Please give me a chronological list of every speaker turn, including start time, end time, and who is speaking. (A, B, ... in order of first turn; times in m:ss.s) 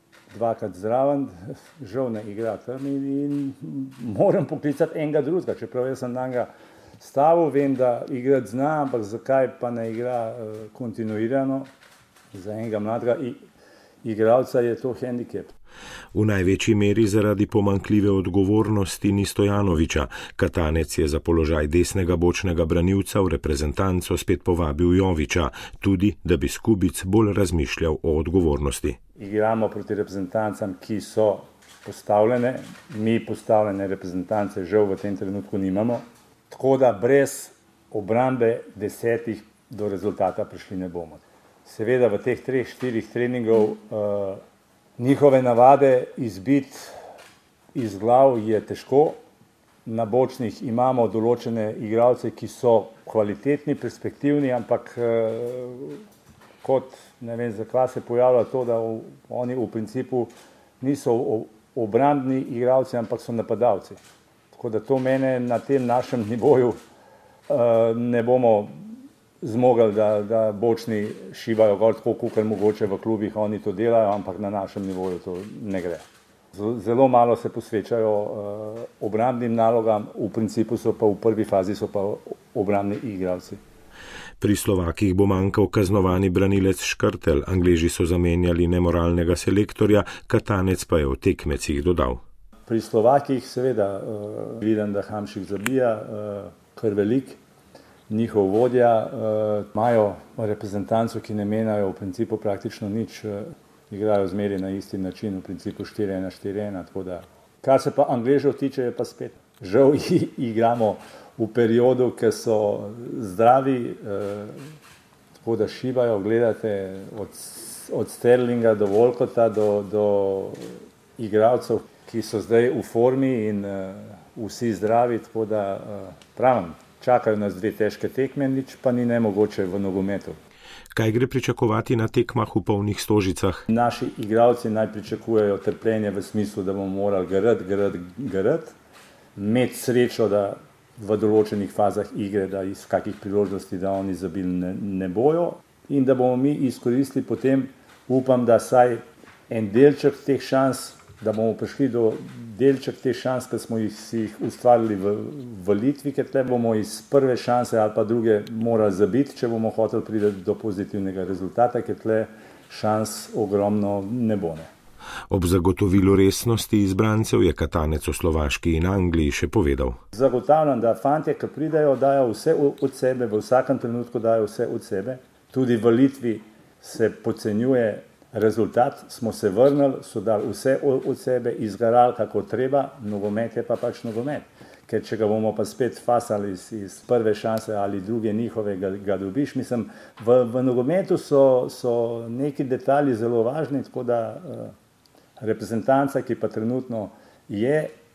0:00.3-0:11.7 A
0:12.3-0:13.4 A
0:14.0-0:15.5 A
0:16.1-0:29.0 B
0:29.2-0:44.4 A
0:45.0-0:46.9 A
0:47.7-0:49.2 A
0:49.8-0:56.0 A
0:56.6-1:04.0 A
1:04.5-1:06.8 A
1:07.5-1:08.8 A
1:09.4-1:23.6 A
1:24.4-1:32.2 B
1:32.7-1:37.4 A
1:38.1-1:54.7 A
1:55.4-2:10.4 A
2:10.9-2:13.6 B
2:13.7-2:18.7 A
2:19.4-2:44.7 A
2:45.3-2:50.0 B
2:50.1-3:14.7 A
3:15.4-3:17.9 A